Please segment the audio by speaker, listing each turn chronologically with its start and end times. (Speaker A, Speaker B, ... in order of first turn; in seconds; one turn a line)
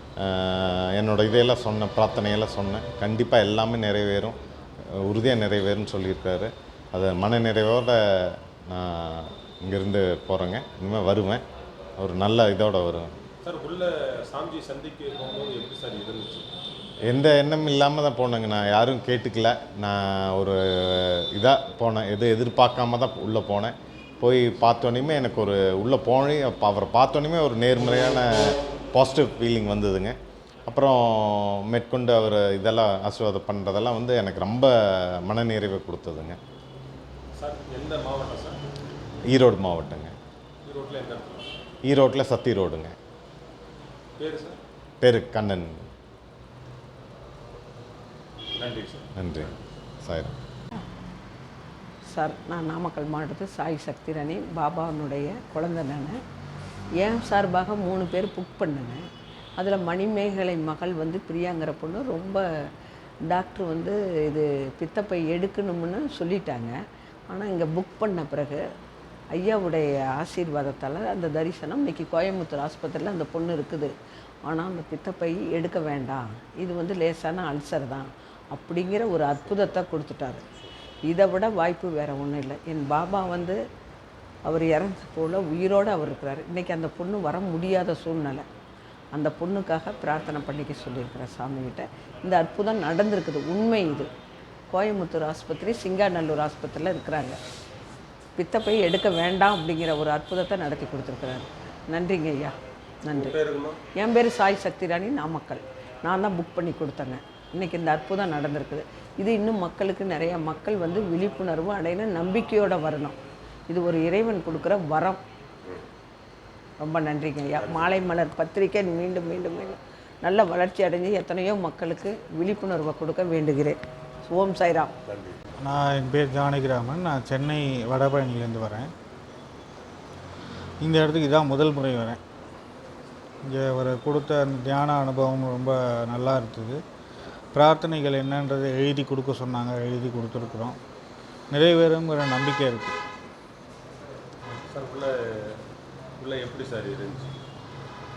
Speaker A: 0.2-4.3
Speaker A: 5.0-11.4
Speaker A: 12.0-13.1
Speaker B: 13.4-16.4
Speaker A: 17.1-30.1
Speaker A: 30.7-36.4
Speaker B: 37.4-38.6
Speaker A: 39.3-40.1
Speaker B: 40.6-41.5
Speaker A: 41.9-42.9
Speaker B: 44.2-44.6
Speaker A: 45.0-45.9
Speaker B: 48.6-49.6
Speaker A: 49.1-49.5
Speaker A: 50.0-50.3
Speaker C: 52.1-56.2
Speaker C: 57.0-59.0
Speaker C: 59.6-62.4
Speaker C: 63.3-66.7
Speaker C: 67.3-68.6
Speaker C: 69.3-73.9
Speaker C: 74.5-80.4
Speaker C: 81.1-83.6
Speaker C: 84.5-88.4
Speaker C: 89.1-94.1
Speaker C: 94.7-97.4
Speaker C: 98.4-102.5
Speaker C: 103.0-103.3
Speaker B: 103.1-103.8
Speaker C: 104.0-113.2
Speaker C: 113.7-115.2
Speaker C: 116.8-123.8
Speaker B: 117.6-118.0
Speaker C: 124.3-124.9
Speaker B: 125.0-125.4
Speaker D: 125.6-128.9
Speaker D: 130.8-132.2
Speaker D: 133.5-136.8
Speaker D: 137.5-140.8
Speaker D: 141.5-142.9
Speaker B: 144.7-145.6
Speaker B: 146.2-147.4